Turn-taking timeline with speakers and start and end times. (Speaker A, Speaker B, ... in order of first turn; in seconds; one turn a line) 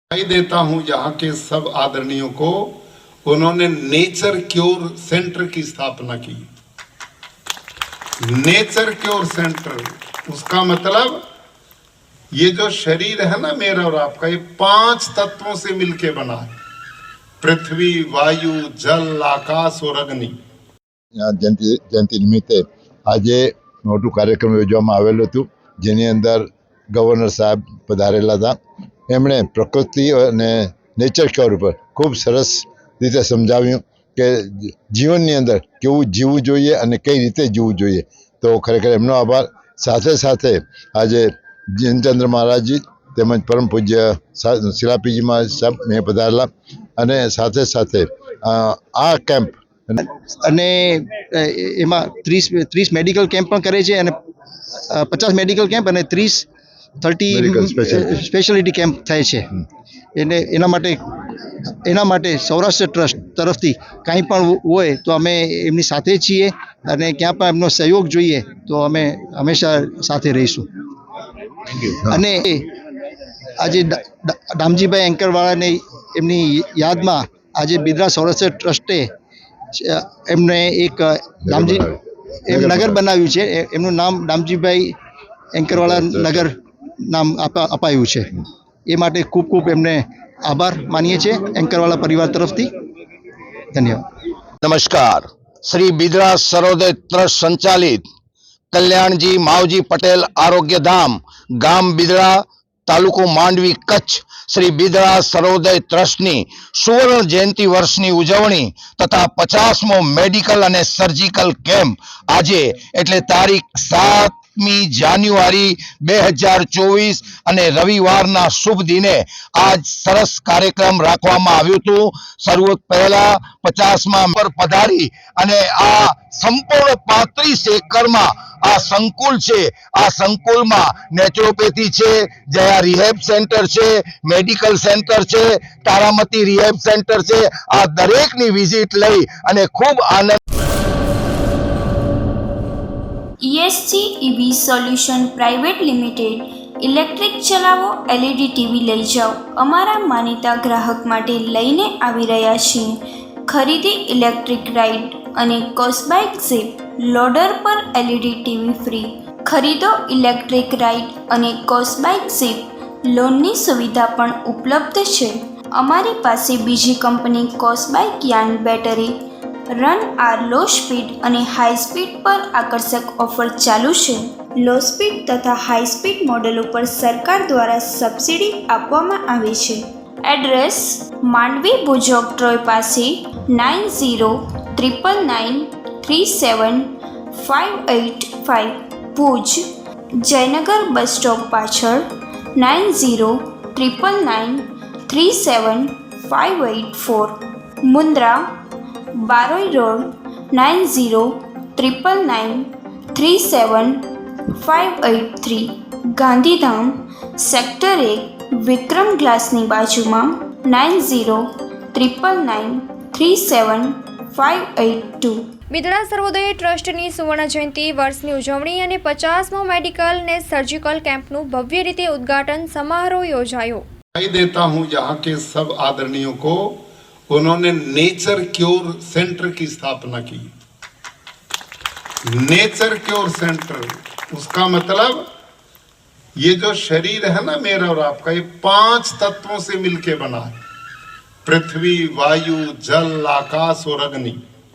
Speaker A: 0.1-6.5
Speaker A: 8.2-11.2
Speaker A: 12.4-16.6
Speaker A: 17.4-20.4
Speaker B: 21.2-28.6
Speaker B: 29.1-50.0
Speaker C: 50.4-54.1
Speaker C: 54.9-56.5
Speaker C: 57.0-59.5
Speaker B: 57.3-58.2
Speaker C: 60.2-61.0
Speaker C: 61.9-70.7
Speaker C: 72.0-72.7
Speaker C: 73.6-79.1
Speaker C: 79.8-81.9
Speaker B: 81.4-82.0
Speaker C: 82.5-84.9
Speaker B: 82.5-83.0
Speaker C: 85.5-86.5
Speaker B: 85.7-86.5
Speaker C: 87.0-88.3
Speaker C: 88.9-92.7
Speaker C: 93.7-94.0
Speaker D: 94.6-98.0
Speaker D: 98.7-140.4
Speaker E: 143.4-169.2
Speaker E: 169.7-189.7
Speaker E: 190.2-198.5
Speaker E: 199.2-215.5
Speaker F: 215.7-223.8
Speaker A: 224.2-230.5
Speaker A: 232.3-235.2
Speaker A: 236.4-240.6
Speaker A: 241.5-244.4